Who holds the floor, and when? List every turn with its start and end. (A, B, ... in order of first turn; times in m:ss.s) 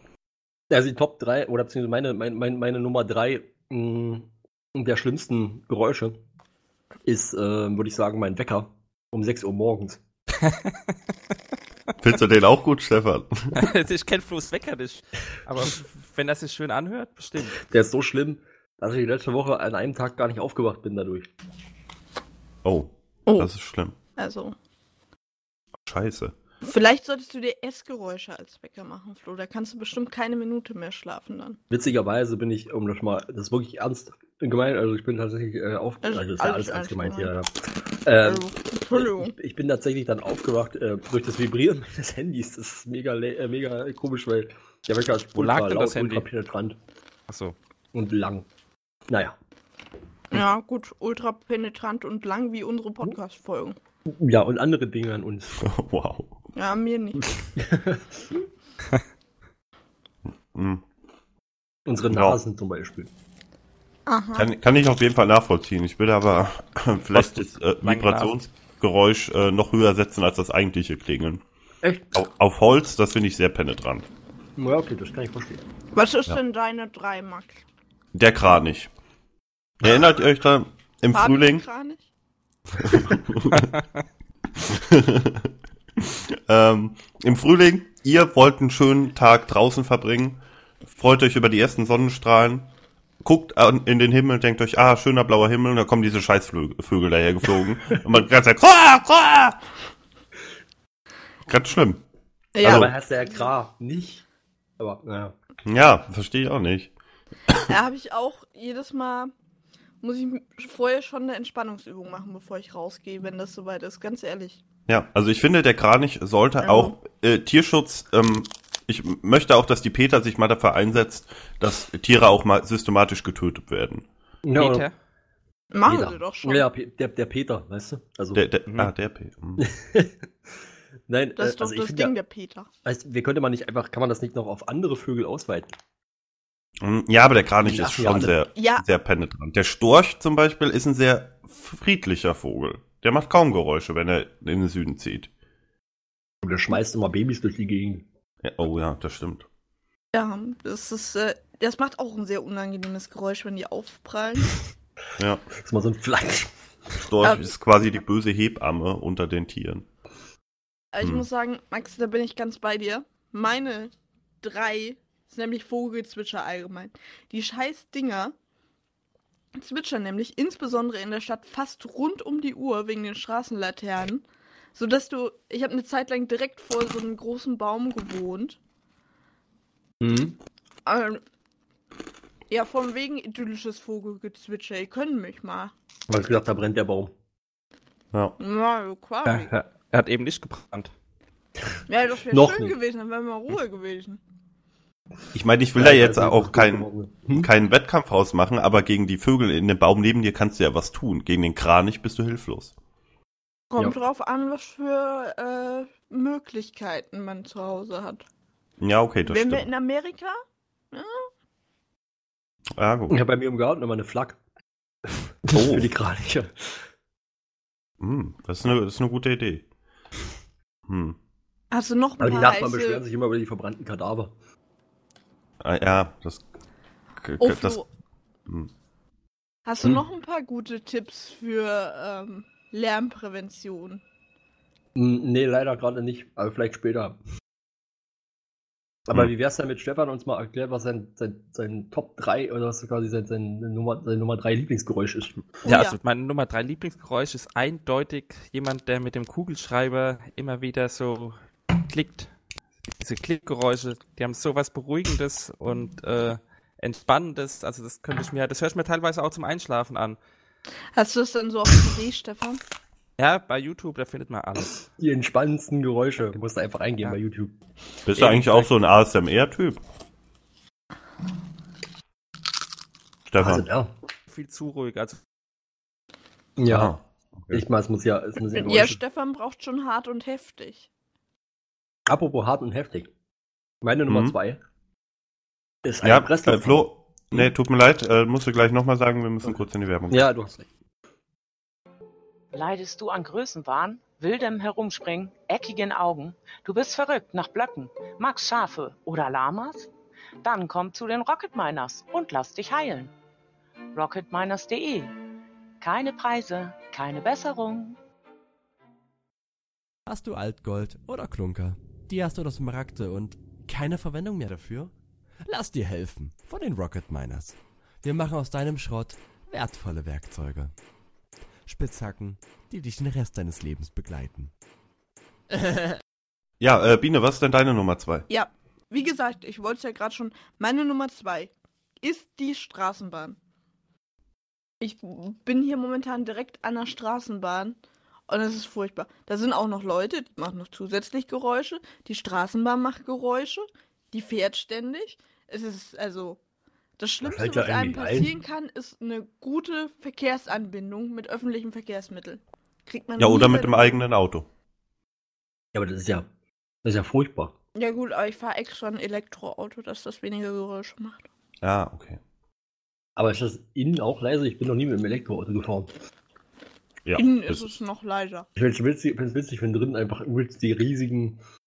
0:00.7-0:06.2 A
0:07.1-0:10.0 A
0:10.4-0:10.8 B
0:12.0-0:13.6 C
0:13.6-0:17.6 B
0:17.7-0:21.3 A
0:22.6-0:24.0 C
0:23.3-0:23.5 D
0:24.2-0:24.6 D
0:25.9-0:26.3 C
0:26.6-0:31.6 D
0:31.7-0:37.5 A
0:36.0-0:37.3 D
0:38.0-0:46.8 A
0:38.2-0:39.3 D
0:45.4-0:46.3 B
0:47.3-0:47.6 B
0:47.9-0:48.5 A
0:49.1-0:49.4 A
0:50.3-0:53.8 D
0:54.1-0:55.6 A
0:55.6-0:56.4 C
0:56.6-0:57.2 D
0:57.6-0:58.3 A
1:00.5-1:00.8 C
1:01.9-1:03.1 A
1:02.1-1:02.4 C
1:04.1-1:04.5 D
1:04.4-1:11.4 C
1:07.1-1:08.4 B
1:11.8-1:12.2 A
1:12.1-1:14.1 C
1:14.6-1:15.6 A
1:15.9-1:17.6 D
1:18.1-1:18.9 C
1:19.8-1:21.6 C
1:21.1-1:22.0 D
1:22.8-1:23.7 C
1:23.5-1:23.8 B
1:24.7-1:32.7 C
1:33.2-1:39.6 C
1:41.5-1:42.0 C
1:42.6-1:42.9 D
1:42.6-1:42.9 C
1:42.6-1:44.2 A
1:44.8-1:45.4 A
1:45.6-1:46.9 C
1:47.7-1:49.3 D
1:50.0-1:54.6 D
1:54.9-2:04.1 C
1:56.6-1:57.0 D
2:04.4-2:04.9 A
2:04.6-2:04.9 B
2:05.7-2:06.7 D
2:05.9-2:08.4 A
2:08.4-2:09.6 C
2:08.7-2:08.9 B
2:09.6-2:10.3 A
2:11.1-2:12.1 A
2:11.4-2:12.7 D
2:12.8-2:15.8 A
2:16.8-2:25.3 C
2:17.6-2:18.4 A
2:18.6-2:18.8 D
2:26.4-2:28.0 A
2:28.4-2:29.5 C
2:30.1-2:34.6 D
2:35.2-2:35.4 C
2:35.6-2:36.5 A
2:37.0-2:39.9 C
2:37.2-2:37.5 D
2:40.9-2:48.4 D
2:41.0-2:41.3 C
2:49.6-2:58.6 D
3:00.0-3:00.4 A
3:00.9-3:01.2 D
3:02.5-3:05.7 D
3:06.1-3:07.1 A
3:08.4-3:09.5 D
3:09.2-3:09.6 A
3:09.8-3:10.9 B
3:11.9-3:14.2 D
3:12.3-3:12.8 A
3:15.3-3:22.7 C
3:15.8-3:17.5 A
3:23.7-3:28.2 D
3:28.8-3:29.7 C
3:29.3-3:30.4 D
3:30.9-3:31.3 D
3:32.8-3:33.2 C
3:33.1-3:34.4 A
3:35.4-3:36.8 A
3:35.5-3:35.9 C
3:38.0-3:39.6 C
3:40.9-3:41.2 C
3:41.7-3:43.0 D
3:42.2-3:44.3 A
3:45.6-3:46.5 C
3:47.2-3:47.8 C
3:47.4-3:47.8 D
3:49.7-3:54.0 D
3:55.0-3:57.2 A
3:59.1-4:05.4 A
4:05.6-4:06.0 D
4:05.7-4:12.3 B
4:13.0-4:20.2 B
4:21.0-4:22.6 D
4:23.2-4:24.8 B
4:25.0-4:27.6 A
4:28.1-4:29.8 C
4:28.2-4:28.7 B
4:33.3-4:33.7 C
4:33.4-4:33.9 A
4:34.3-4:35.2 B
4:36.6-4:37.0 A
4:36.7-4:37.6 C
4:37.5-4:39.0 A
4:38.6-4:40.9 D
4:42.1-4:43.1 A
4:43.8-4:44.6 A
4:44.1-4:44.4 C
4:45.8-4:47.5 A
4:46.0-4:50.3 C
4:50.1-4:50.7 A
4:52.5-4:59.9 E
5:00.4-5:03.1 E
5:04.0-5:05.1 E
5:05.8-5:08.0 E
5:10.1-5:14.9 F
5:15.5-5:20.7 F
5:21.7-5:24.5 F
5:26.6-5:28.3 C
5:28.3-5:33.4 D
5:34.8-5:37.8 D
5:38.3-5:46.4 D
5:47.0-5:54.0 D
5:47.2-5:48.3 A
5:53.2-5:54.5 C
5:55.7-5:56.3 A
5:56.8-5:57.5 A
5:57.8-6:01.3 D
6:01.6-6:02.2 C
6:03.2-6:05.9 A
6:07.0-6:07.8 C
6:07.2-6:08.5 D
6:08.6-6:11.4 A